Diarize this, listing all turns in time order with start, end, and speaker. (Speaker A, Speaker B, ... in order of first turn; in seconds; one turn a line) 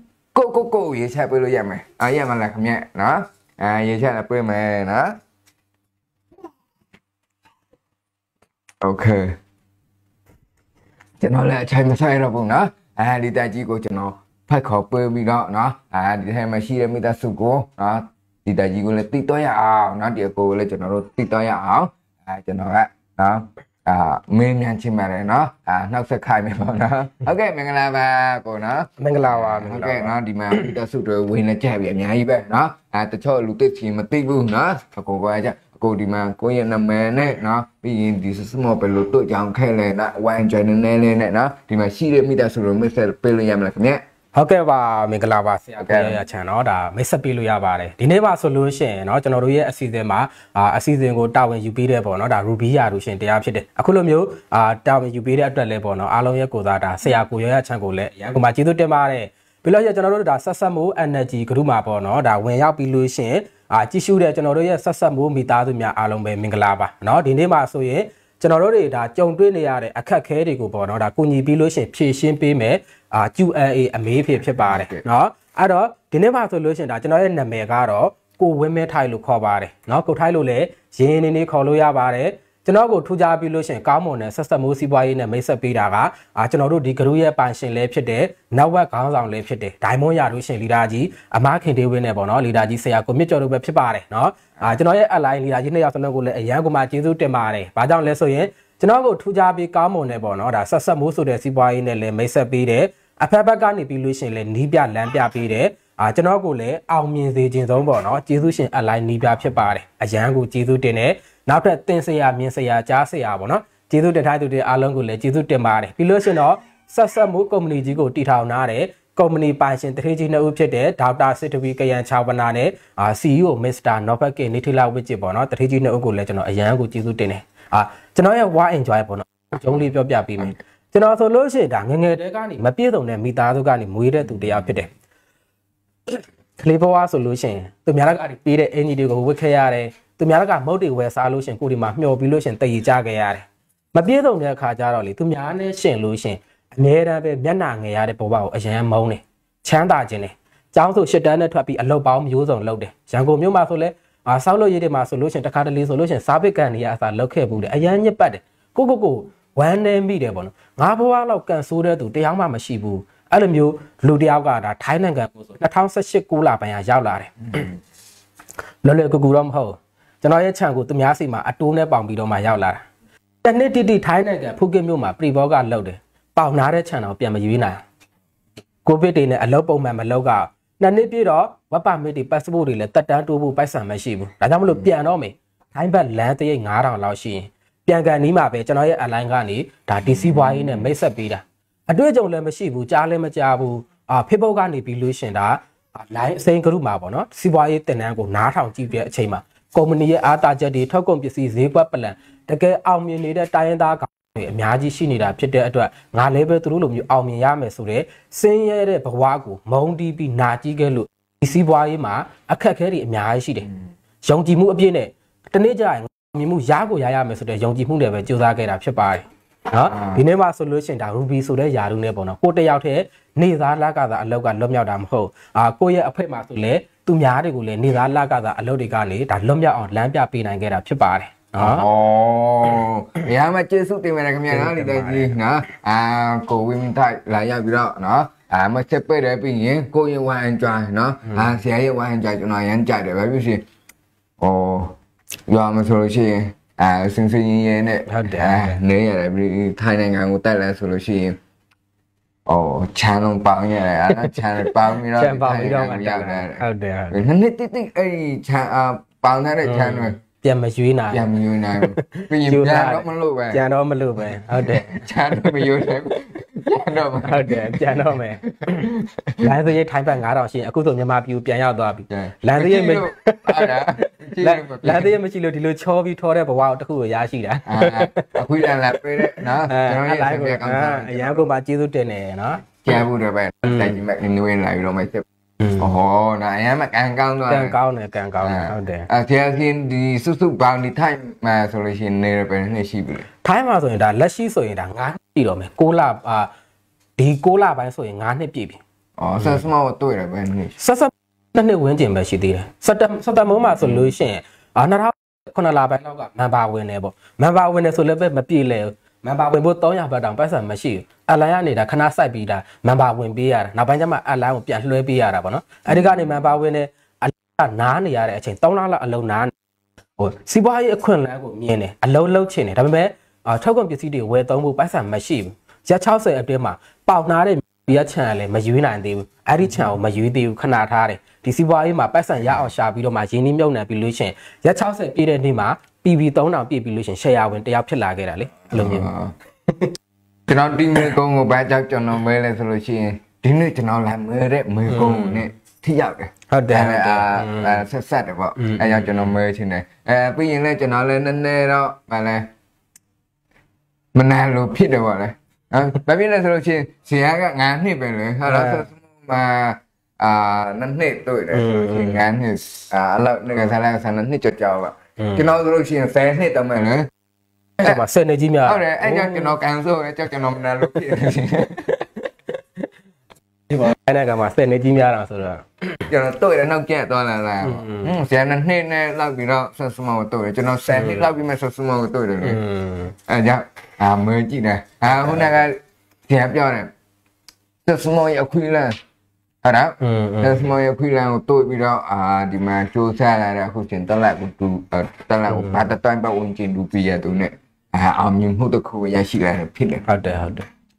Speaker A: 0.3-5.2
Speaker A: 8.8-9.4
Speaker A: 11.2-44.0
Speaker B: 29.0-30.7
Speaker B: 44.4-134.9
Speaker A: 45.8-46.2
Speaker A: 74.6-75.0
Speaker B: 136.1-167.7
Speaker B: 168.8-172.8
Speaker B: 173.4-177.8
Speaker B: 178.8-213.7
Speaker A: 190.1-190.8
Speaker B: 214.2-231.9
Speaker A: 219.9-220.2
Speaker A: 231.6-243.7
Speaker B: 234.5-235.3
Speaker B: 241.3-241.6
Speaker A: 244.4-251.4
Speaker B: 248.1-248.8
Speaker A: 252.5-260.2
Speaker B: 254.1-254.4
Speaker B: 255.1-257.2
Speaker B: 259.6-265.6
Speaker A: 261.1-263.6
Speaker A: 264.5-269.5
Speaker B: 267.2-268.9
Speaker B: 269.4-283.0
Speaker A: 272.1-275.1
Speaker A: 277.7-281.4
Speaker A: 282.8-287.8
Speaker B: 287.5-289.1
Speaker A: 288.4-293.3
Speaker B: 293.4-296.5
Speaker B: 297.2-298.8
Speaker A: 299.2-300.8
Speaker B: 300.8-319.5
Speaker A: 315.9-316.1
Speaker B: 320.2-339.1
Speaker A: 338.7-339.3
Speaker B: 339.7-339.9
Speaker A: 340.5-352.5
Speaker B: 344.9-345.4
Speaker B: 346.5-347.9
Speaker B: 348.6-349.3
Speaker A: 354.1-367.1
Speaker B: 358.5-358.9
Speaker B: 361.5-362.2
Speaker B: 365.2-365.5
Speaker B: 367.8-369.6
Speaker A: 368.6-372.0
Speaker B: 370.8-371.1
Speaker B: 372.5-372.9
Speaker B: 373.7-376.0
Speaker A: 376.1-382.6
Speaker B: 377.6-378.1
Speaker B: 380.9-381.3
Speaker B: 382.4-383.2
Speaker A: 383.3-386.9
Speaker B: 385.1-385.6
Speaker A: 387.9-389.0
Speaker A: 389.6-400.1
Speaker B: 390.0-390.7
Speaker B: 395.5-395.9
Speaker B: 400.1-400.7